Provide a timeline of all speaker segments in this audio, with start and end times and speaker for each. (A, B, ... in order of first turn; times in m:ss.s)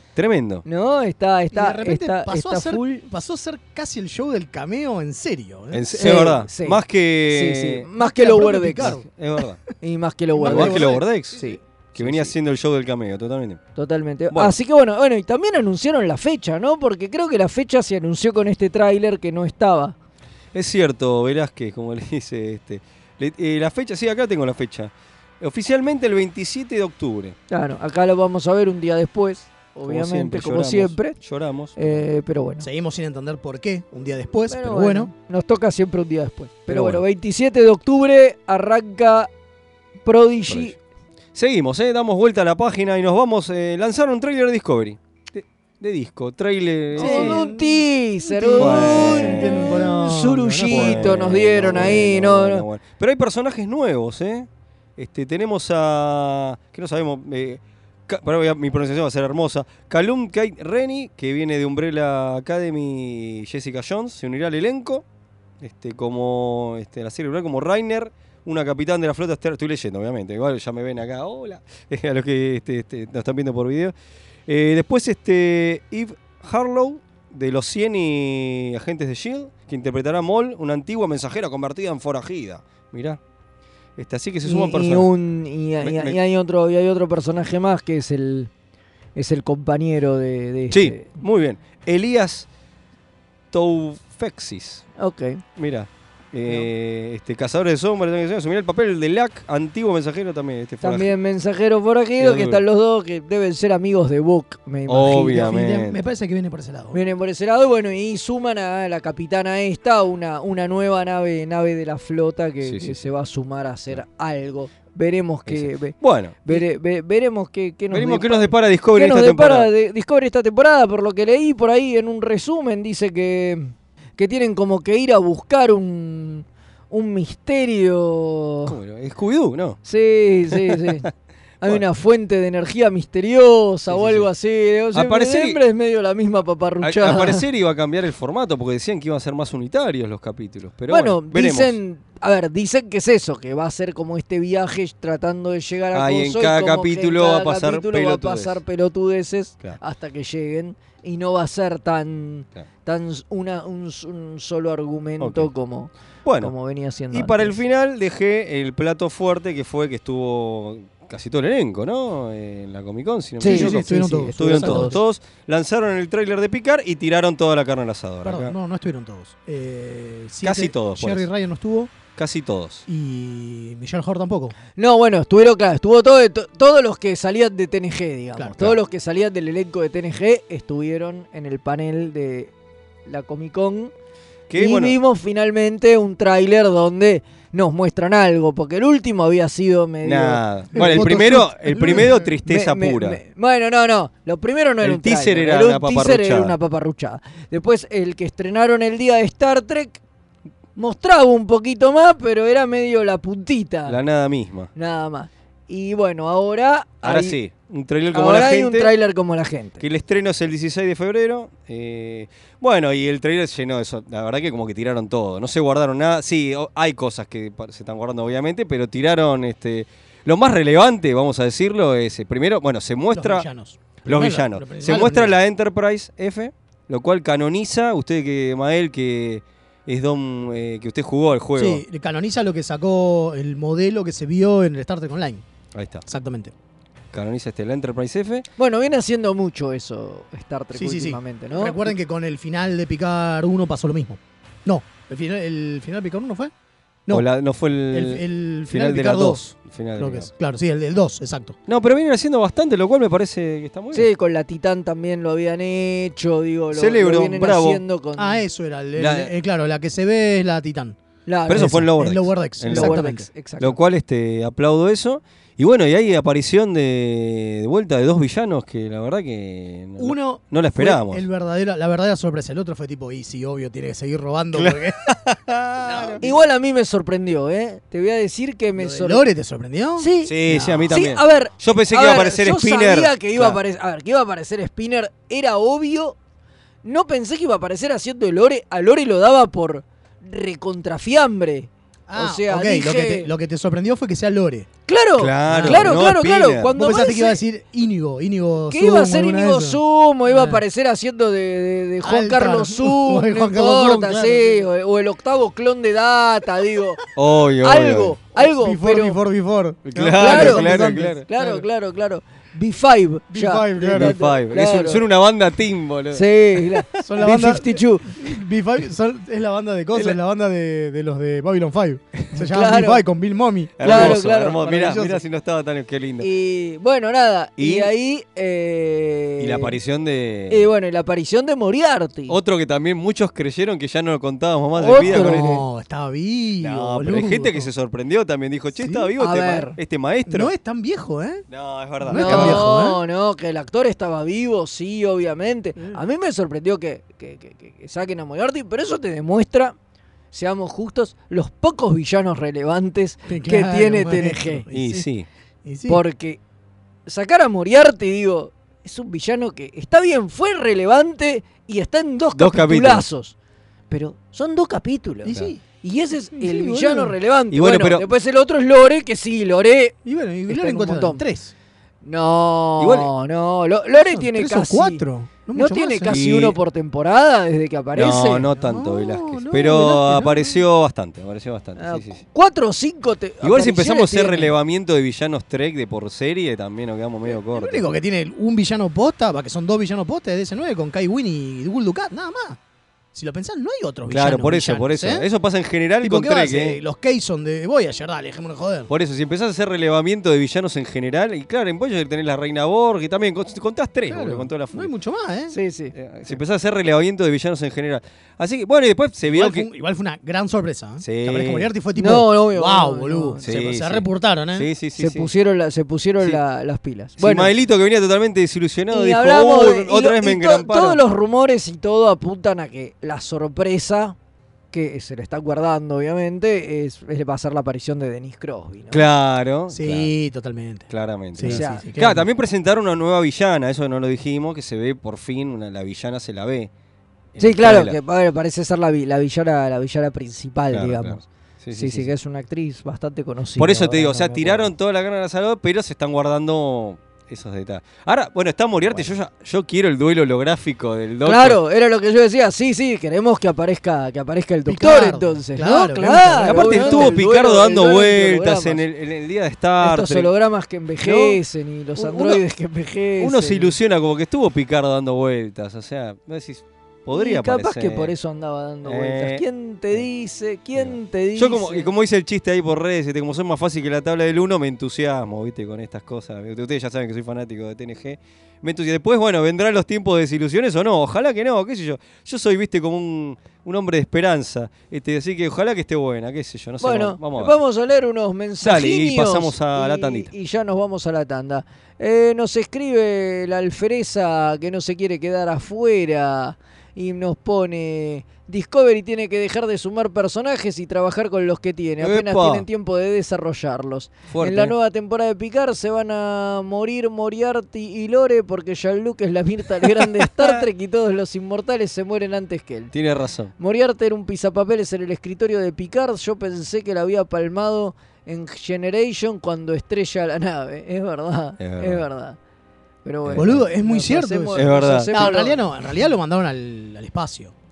0:00.2-0:00.6 A
0:00.6-0:03.0 B
0:01.5-0:05.9 C
0:05.7-0:07.9 A
0:06.0-0:09.0 B
0:08.0-0:09.1 C
0:08.8-0:09.6 A
0:09.8-0:12.3 B
0:10.3-0:11.5 C
0:10.4-0:13.6 A
0:13.8-0:20.0 B
0:20.5-0:27.4 A
0:27.5-0:31.2 B
0:29.9-0:32.0 A
0:31.8-0:32.7 B
0:32.6-0:35.1 C
0:34.5-0:39.3 B
0:36.7-0:37.0 A
0:40.0-0:40.8 B
0:40.5-0:40.8 A
0:41.4-0:47.4 A
0:47.0-0:52.0 C
0:47.0-0:52.6 B
0:48.6-0:49.7 A
0:50.7-1:05.0 A
1:05.6-1:13.9 A
1:14.5-1:23.2 A
1:24.0-1:25.1 A
1:24.4-1:28.5 B
1:25.8-1:26.2 A
1:29.2-1:31.1 B
1:30.7-1:32.5 A
1:33.5-1:34.8 A
1:35.0-1:35.4 B
1:35.6-1:41.1 A
1:40.8-1:45.6 B
1:42.2-1:42.6 A
1:44.9-1:46.0 A
1:45.3-1:47.0 C
1:46.9-2:08.8 B
1:52.6-1:53.0 A
1:55.5-1:56.6 A
1:57.9-1:59.7 A
2:08.7-2:09.8 A
2:09.9-2:11.1 B
2:10.5-2:10.9 A
2:11.6-2:17.4 B
2:13.9-2:14.3 A
2:14.9-2:15.6 A
2:16.8-2:21.8 A
2:20.9-2:37.6 B
2:25.9-2:28.6 A
2:35.2-2:35.5 A
2:36.2-2:36.5 A
2:37.1-2:48.6 A
2:43.4-2:45.0 B
2:43.4-2:45.0 C
2:48.2-2:51.9 C
2:50.4-2:51.3 A
2:52.2-2:52.8 A
2:52.9-2:54.6 C
2:54.8-3:02.5 B
2:58.4-2:58.6 C
3:03.1-3:03.9 B
3:04.5-3:05.0 A
3:04.6-3:20.0 B
3:10.0-3:13.2 A
3:10.7-3:12.4 C
3:14.8-3:16.6 A
3:20.8-3:24.0 B
3:23.9-3:24.7 A
3:24.8-3:27.4 B
3:27.0-3:28.9 A
3:28.1-3:29.8 B
3:29.8-3:43.5 A
3:43.1-3:45.4 C
3:44.0-3:51.8 A
3:51.6-3:55.4 C
3:55.7-3:56.0 A
3:56.1-3:56.5 C
3:57.1-3:58.5 A
3:58.6-4:01.9 B
4:00.7-4:06.5 C
4:07.1-4:10.3 A
4:07.9-4:09.4 C
4:10.0-4:11.6 C
4:11.7-4:14.1 A
4:13.9-4:18.4 B
4:16.7-4:17.8 A
4:18.2-4:23.3 C
4:19.0-4:19.3 A
4:21.3-4:21.9 B
4:21.5-4:23.0 A
4:22.7-4:23.8 B
4:23.6-4:31.2 A
4:30.0-4:35.0 C
4:34.5-4:36.2 A
4:35.8-4:36.3 C
4:36.2-4:39.2 B
4:38.8-4:40.9 C
4:40.0-4:46.2 B
4:40.2-4:43.6 A
4:46.8-4:53.3 B
4:52.1-4:54.7 C
4:54.9-4:57.4 B
4:55.2-4:56.7 A
4:55.5-4:56.0 C
4:56.7-5:00.6 C
4:58.7-5:07.0 B
5:02.0-5:04.7 C
5:07.2-5:08.2 A
5:07.6-5:09.2 B
5:08.4-5:11.6 C
5:09.8-5:11.2 A
5:10.2-5:15.0 B
5:13.3-5:14.2 C
5:13.9-5:16.8 A
5:16.1-5:18.1 B
5:17.0-5:25.2 C
5:22.4-5:23.0 B
5:23.8-5:26.3 A
5:23.8-5:24.6 B
5:26.2-5:29.8 B
5:27.6-5:27.9 A
5:29.4-5:30.7 A
5:30.5-5:32.4 B
5:32.3-5:35.6 A
5:34.8-5:35.6 B
5:34.9-5:37.7 C
5:36.6-5:40.5 A
5:38.8-5:39.1 C
5:39.2-5:39.8 B
5:40.3-5:41.4 C
5:41.5-5:42.7 A
5:42.0-5:43.0 C
5:42.1-5:49.8 B
5:50.3-5:54.6 B
5:53.3-5:55.1 C
5:54.7-5:55.3 A
5:55.6-5:56.0 C
5:55.9-5:56.4 B
5:57.1-6:03.4 B
6:02.3-6:03.0 A
6:03.9-6:10.0 B
6:05.2-6:05.6 C
6:06.3-6:07.2 C
6:07.5-6:08.1 A
6:10.0-6:11.5 C
6:10.5-6:11.2 B
6:12.0-6:18.5 B
6:12.8-6:13.1 A
6:14.0-6:16.2 C
6:16.1-6:16.6 A
6:18.0-6:22.2 A
6:18.5-6:20.6 C
6:21.8-6:24.5 B
6:23.4-6:27.9 A
6:27.5-6:32.6 C
6:33.1-6:35.3 C
6:34.1-6:36.8 A
6:36.0-6:38.9 C
6:38.9-6:44.9 A
6:44.1-6:45.6 C
6:45.5-6:45.9 B
6:46.0-6:49.7 A
6:49.3-6:54.7 C
6:51.0-6:51.7 A
6:52.0-6:53.5 B
6:53.4-6:55.3 A
6:55.0-6:57.5 B
6:57.2-7:01.0 A
6:58.9-7:04.2 B
7:04.7-7:09.0 B
7:08.9-7:10.1 A
7:09.7-7:12.3 C
7:10.9-7:16.7 A
7:11.4-7:11.8 B
7:17.4-7:18.0 A
7:17.4-7:21.2 B
7:20.7-7:22.1 A
7:21.7-7:24.6 B
7:23.6-7:31.6 A
7:31.2-7:38.8 B
7:34.7-7:37.2 C
7:36.4-7:40.3 A
7:39.8-7:43.7 B
7:41.0-7:41.4 A
7:42.0-7:42.4 A
7:43.2-7:48.1 A
7:47.1-7:51.9 B
7:48.8-7:50.0 A
7:50.8-8:07.6 A
8:06.8-8:32.9 B
8:08.6-8:10.3 A
8:22.0-8:22.6 A
8:24.3-8:24.8 A
8:29.8-8:30.6 A
8:32.9-8:33.5 A
8:33.6-8:42.4 B
8:41.6-8:42.0 A
8:43.0-8:45.6 B
8:43.2-8:43.6 A
8:43.4-8:47.5 C
8:44.6-8:45.3 A